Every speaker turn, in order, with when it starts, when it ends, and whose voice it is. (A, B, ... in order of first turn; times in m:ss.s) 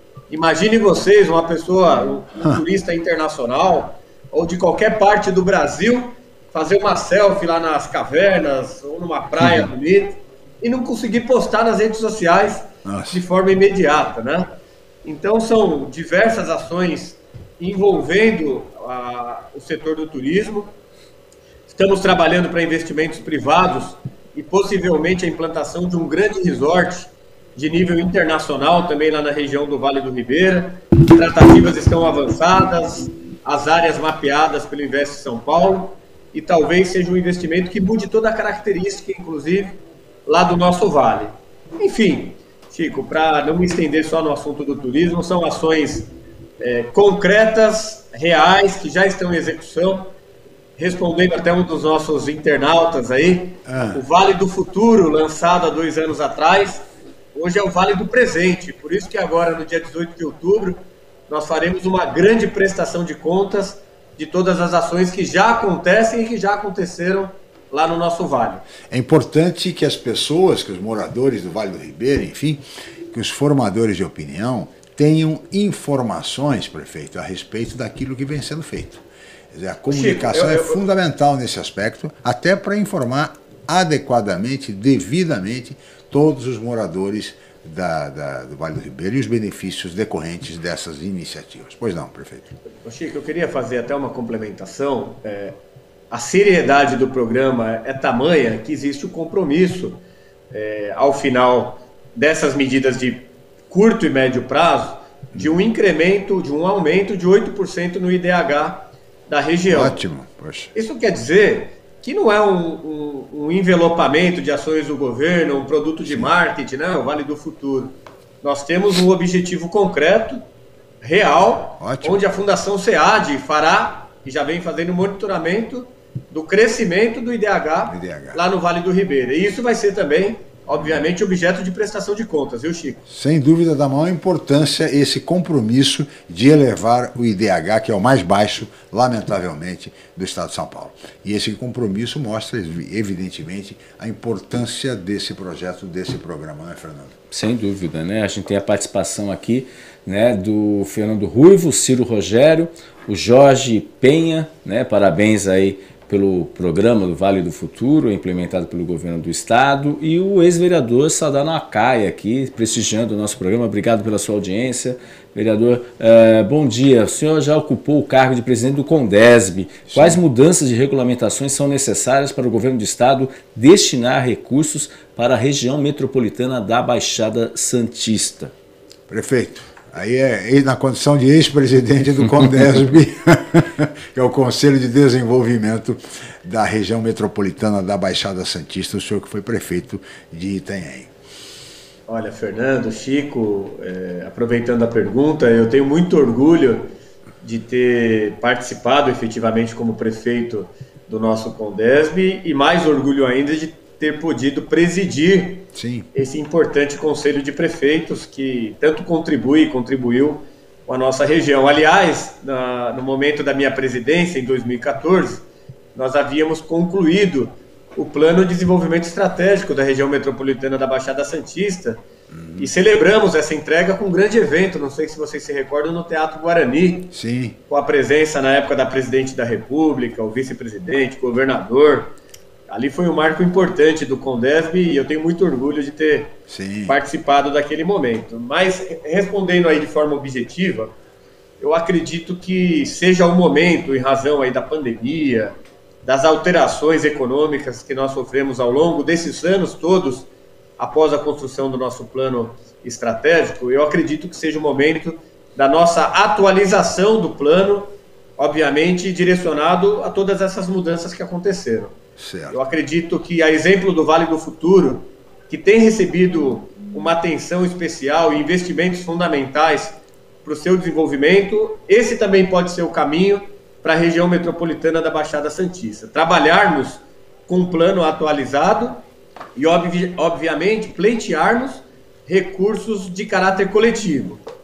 0:00.3-0:14.5 A
0:09.4-0:09.7 B
0:12.8-0:13.2 B
0:15.0-0:20.7 A
0:21.7-0:46.1 A
0:46.6-0:50.1 A
0:50.8-1:08.6 A
0:53.6-0:54.0 B
1:08.9-1:32.6 B
1:19.9-1:20.8 A
1:32.8-1:35.6 A
1:36.1-1:50.0 A
1:45.4-1:45.6 B
1:49.7-1:50.7 B
1:50.7-2:00.4 A
1:56.0-1:56.3 B
2:01.0-2:13.1 A
2:01.8-2:02.2 B
2:07.9-2:08.4 B
2:10.7-2:11.1 B
2:13.1-2:27.2 B
2:27.3-2:58.5 C
2:49.9-2:50.2 B
2:59.1-3:11.1 B
3:12.1-3:42.0 A
3:25.7-3:26.1 B
3:42.3-3:42.7 B
3:42.6-3:47.1 A
3:47.1-3:47.6 B
3:47.7-3:52.1 A
3:52.7-3:56.4 A
3:56.5-3:57.0 B
3:56.9-4:00.9 A
4:01.6-4:22.0 A
4:22.2-4:22.6 B
4:22.5-4:39.0 A
4:39.6-4:44.4 A